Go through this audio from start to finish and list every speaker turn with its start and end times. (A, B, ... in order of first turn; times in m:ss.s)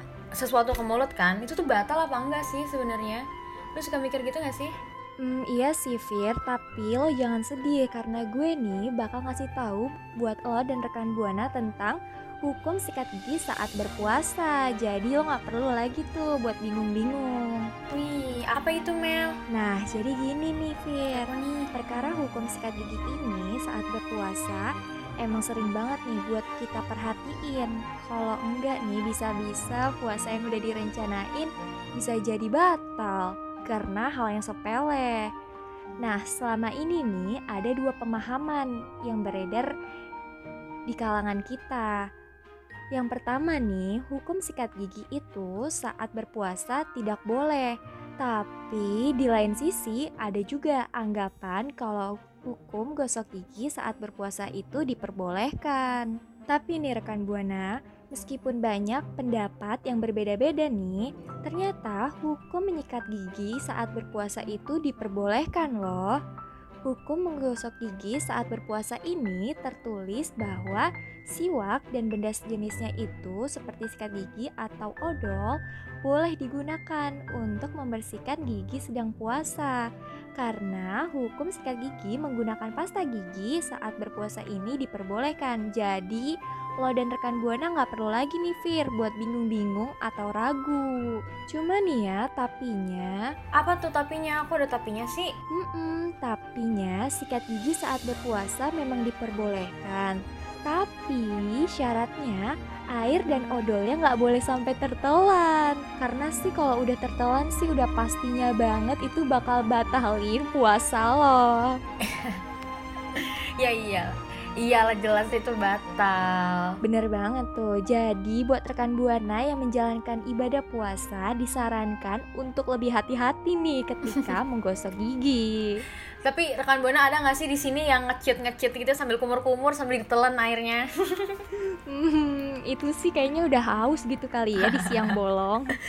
0:00.4-0:03.2 A
0:03.8-0:04.7 A
0:05.2-0:17.6 B
0:17.9-0:19.4 A
0:19.5-0:24.7 B
0:21.2-0:21.7 A
0:25.2-0:35.2 B
0:36.0-0:39.7 B
0:40.9-0:41.9 B
0:42.9-1:06.1 B
1:06.9-1:19.8 B
1:20.4-1:26.3 B
1:26.8-1:30.9 B
1:31.5-1:33.2 B
1:33.6-1:35.3 A
1:35.6-1:42.4 B
1:43.0-1:51.8 B
1:52.0-1:52.4 A
1:53.2-1:56.8 A
1:56.8-2:05.8 B
2:06.2-2:11.4 A
2:11.9-2:15.8 B
2:14.6-2:15.1 A